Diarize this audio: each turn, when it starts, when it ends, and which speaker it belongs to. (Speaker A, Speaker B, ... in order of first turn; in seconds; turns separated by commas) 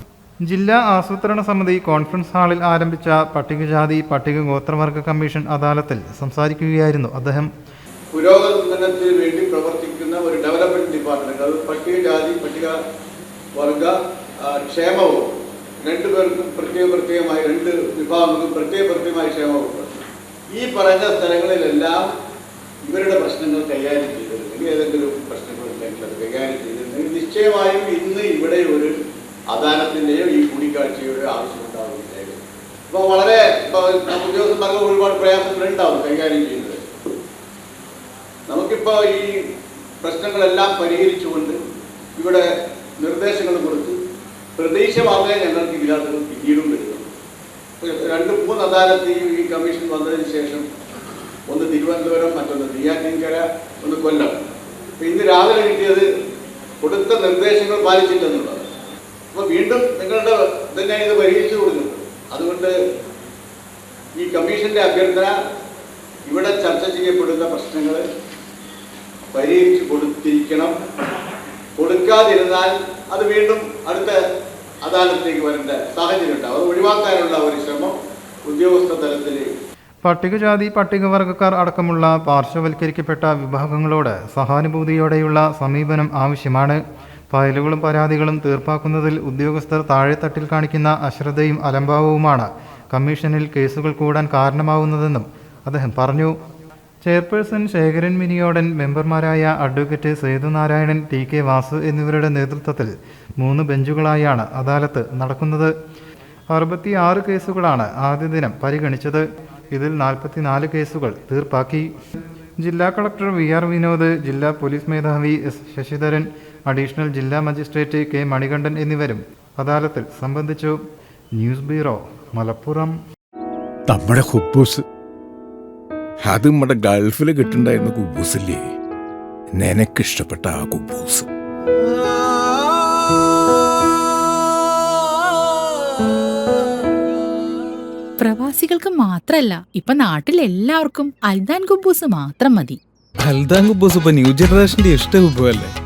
Speaker A: 0.5-7.5, Speaker B: 8.2-12.8, Speaker B: 13.6-15.3, Speaker B: 15.8-20.0, Speaker B: 20.5-22.1, Speaker B: 22.9-28.9, Speaker B: 29.5-36.8, Speaker B: 38.5-39.4, Speaker B: 40.0-41.6, Speaker B: 42.2-42.5, Speaker B: 43.0-44.0, Speaker B: 44.6-47.1, Speaker B: 47.8-50.7, Speaker B: 51.5-54.3, Speaker B: 55.0-56.1, Speaker B: 56.8-58.7, Speaker B: 59.3-62.7, Speaker B: 64.2-65.4, Speaker B: 66.3-68.0, Speaker B: 69.3-70.8, Speaker B: 71.8-74.2, Speaker B: 74.8-78.0, Speaker B: 78.5-79.5, Speaker A: 80.0-96.3, Speaker A: 97.0-105.7, Speaker A: 106.5-111.9, Speaker A: 112.6-120.8, Speaker A: 121.4-123.0, Speaker C: 123.9-124.8, Speaker C: 126.2-128.6, Speaker C: 129.6-131.3, Speaker D: 138.2-142.8, Speaker E: 143.3-145.7